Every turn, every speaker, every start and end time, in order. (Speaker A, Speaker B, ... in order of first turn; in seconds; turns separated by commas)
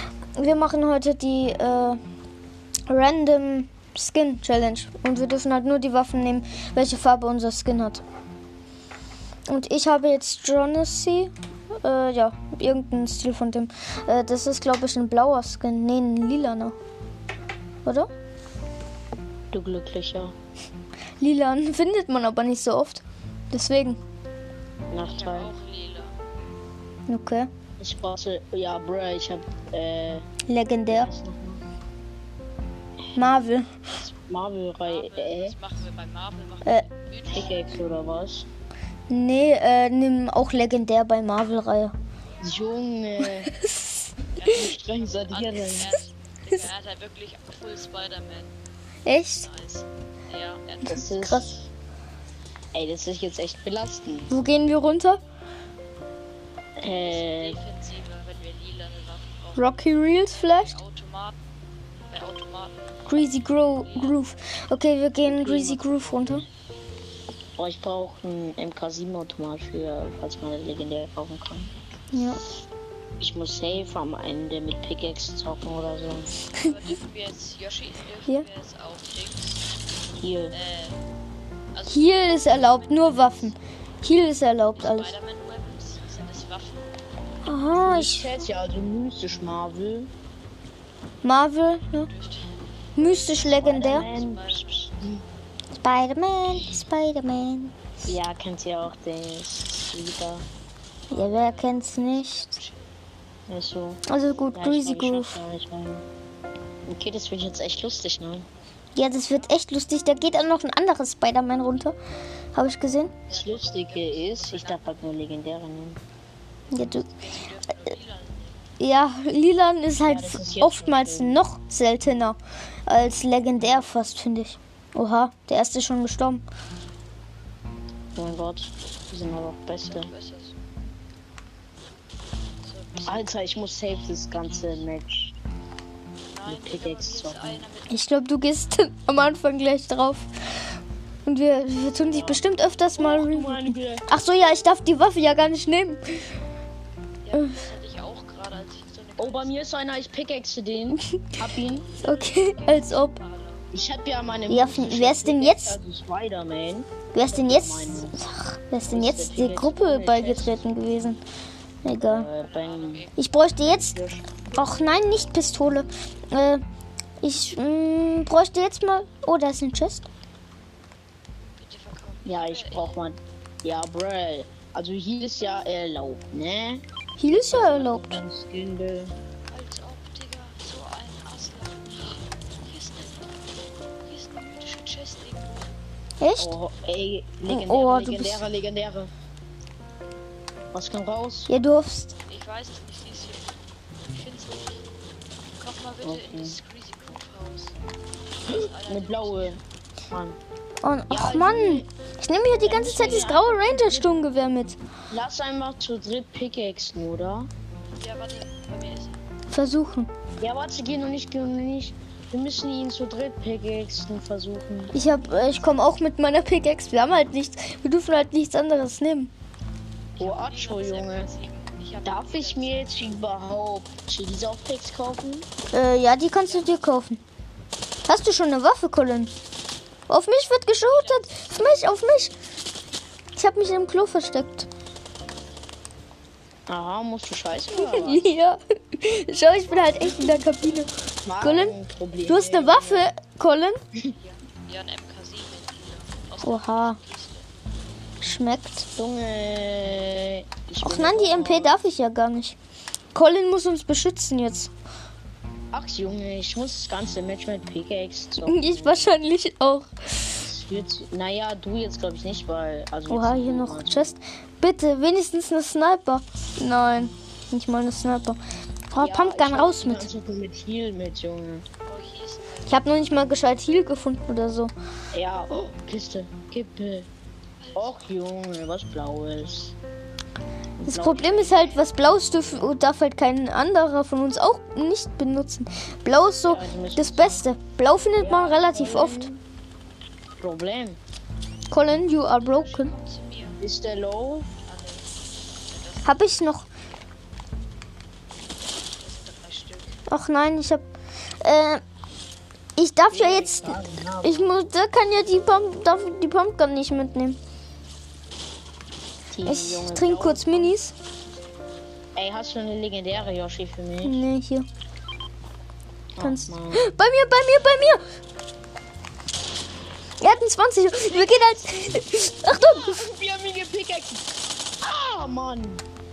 Speaker A: 0.4-2.0, Speaker A: 2.9-8.0, Speaker A: 9.5-16.8, Speaker A: 17.8-18.1, Speaker B: 19.5-20.3, Speaker A: 21.2-24.0, Speaker B: 24.9-25.5, Speaker C: 25.0-26.2, Speaker A: 27.1-27.5, Speaker B: 27.8-30.3, Speaker A: 30.5-31.1, Speaker B: 30.9-31.6, Speaker B: 33.0-33.4, Speaker A: 33.1-33.8, Speaker B: 34.0-35.5, Speaker C: 34.8-37.8, Speaker B: 37.3-38.5, Speaker A: 39.1-41.9, Speaker C: 42.3-42.8, Speaker B: 42.4-43.5, Speaker A: 43.5-43.9, Speaker C: 44.3-48.5, Speaker B: 44.4-45.9, Speaker A: 49.0-49.5, Speaker C: 49.1-51.7, Speaker B: 50.9-51.6, Speaker A: 51.1-51.5, Speaker B: 52.7-54.4, Speaker A: 54.3-55.2, Speaker B: 56.8-57.6, Speaker C: 57.0-61.4, Speaker A: 59.6-60.8, Speaker C: 62.1-62.8, Speaker A: 63.1-66.4, Speaker C: 63.8-64.2, Speaker B: 65.2-66.4, Speaker B: 67.6-71.7, Speaker A: 72.1-72.4, Speaker B: 73.2-76.4, Speaker C: 76.5-79.7, Speaker B: 80.2-80.5, Speaker C: 80.5-81.0, Speaker C: 81.7-83.5, Speaker A: 81.9-85.1, Speaker C: 84.8-87.0, Speaker A: 87.4-88.3, Speaker B: 87.8-90.1, Speaker A: 91.2-92.1, Speaker C: 91.7-94.9, Speaker A: 93.0-94.0, Speaker B: 93.4-95.2, Speaker A: 95.8-97.8, Speaker B: 98.0-100.5, Speaker C: 101.1-102.9, Speaker A: 101.1-102.5, Speaker B: 103.5-104.0, Speaker A: 104.1-105.4, Speaker B: 104.5-106.0, Speaker B: 106.9-108.5, Speaker A: 109.0-112.0, Speaker A: 112.5-113.1, Speaker C: 113.3-115.2, Speaker B: 113.3-116.0, Speaker A: 116.7-117.1, Speaker C: 117.0-118.6, Speaker A: 118.8-126.4, Speaker B: 120.0-121.4, Speaker B: 128.2-130.1, Speaker C: 129.8-130.6, Speaker C: 132.6-134.9, Speaker B: 133.1-135.3, Speaker C: 136.3-138.1, Speaker B: 136.5-137.6, Speaker A: 137.9-140.3, Speaker A: 141.3-146.0, Speaker B: 142.1-142.4, Speaker B: 143.0-144.1, Speaker C: 147.2-149.8, Speaker B: 149.2-151.9, Speaker A: 151.0-151.2, Speaker C: 151.8-153.7, Speaker A: 152.0-153.2, Speaker B: 153.7-158.2, Speaker A: 154.5-155.8, Speaker A: 157.1-161.2, Speaker B: 158.9-160.7, Speaker A: 161.8-162.3, Speaker B: 162.1-163.1, Speaker C: 162.3-163.6, Speaker A: 163.2-164.0, Speaker B: 163.7-164.7, Speaker A: 164.6-166.6, Speaker A: 167.2-170.1, Speaker C: 171.6-173.0, Speaker B: 172.2-179.2, Speaker A: 177.2-178.1, Speaker C: 179.5-183.3, Speaker C: 184.0-185.8, Speaker A: 186.2-186.6, Speaker B: 186.4-189.1, Speaker A: 187.5-188.4, Speaker B: 190.7-191.5, Speaker A: 191.5-192.1, Speaker C: 192.3-193.6, Speaker C: 194.1-194.9, Speaker C: 195.6-197.8, Speaker B: 196.0-196.6, Speaker C: 198.4-199.6, Speaker B: 198.5-200.4, Speaker A: 200.8-204.8, Speaker B: 201.1-201.9, Speaker B: 202.6-204.1, Speaker B: 205.1-207.5, Speaker C: 208.0-209.2, Speaker A: 209.5-210.1, Speaker B: 210.4-214.9, Speaker A: 214.9-219.3, Speaker C: 220.2-223.1, Speaker B: 220.2-221.3, Speaker B: 222.0-225.5, Speaker A: 225.7-227.2, Speaker C: 226.4-227.0, Speaker A: 228.1-229.3, Speaker A: 230.1-232.3, Speaker C: 230.8-231.6, Speaker A: 233.4-234.7, Speaker B: 236.7-238.3, Speaker A: 237.8-240.9, Speaker B: 239.8-240.4, Speaker B: 241.2-243.1, Speaker A: 241.4-241.8, Speaker A: 242.3-243.8, Speaker C: 244.2-247.5, Speaker A: 246.4-247.0, Speaker A: 248.2-248.9, Speaker B: 249.0-251.8, Speaker A: 250.8-252.6, Speaker A: 253.1-254.7, Speaker B: 255.7-259.1, Speaker A: 258.4-260.2, Speaker B: 260.3-264.1, Speaker A: 263.1-268.4, Speaker A: 268.9-270.1, Speaker B: 268.9-271.6, Speaker C: 271.8-272.8, Speaker A: 272.7-274.7, Speaker B: 275.1-277.1, Speaker C: 277.6-278.0, Speaker B: 277.8-279.8, Speaker B: 280.8-281.9, Speaker A: 280.8-289.3, Speaker B: 286.5-287.4, Speaker B: 288.2-289.4, Speaker B: 290.4-291.0, Speaker A: 291.7-292.9, Speaker C: 292.3-293.6, Speaker B: 293.6-294.5, Speaker C: 294.6-296.7, Speaker A: 296.0-296.6, Speaker C: 298.9-300.0, Speaker A: 300.1-300.8, Speaker A: 301.4-301.8, Speaker A: 302.8-307.4, Speaker B: 303.1-304.6, Speaker B: 309.3-310.8, Speaker A: 309.4-310.9, Speaker B: 312.1-314.2, Speaker A: 314.0-314.7, Speaker B: 316.2-316.9, Speaker A: 316.2-318.0, Speaker A: 320.2-323.1, Speaker C: 321.0-321.9, Speaker B: 322.5-324.3, Speaker B: 324.8-325.8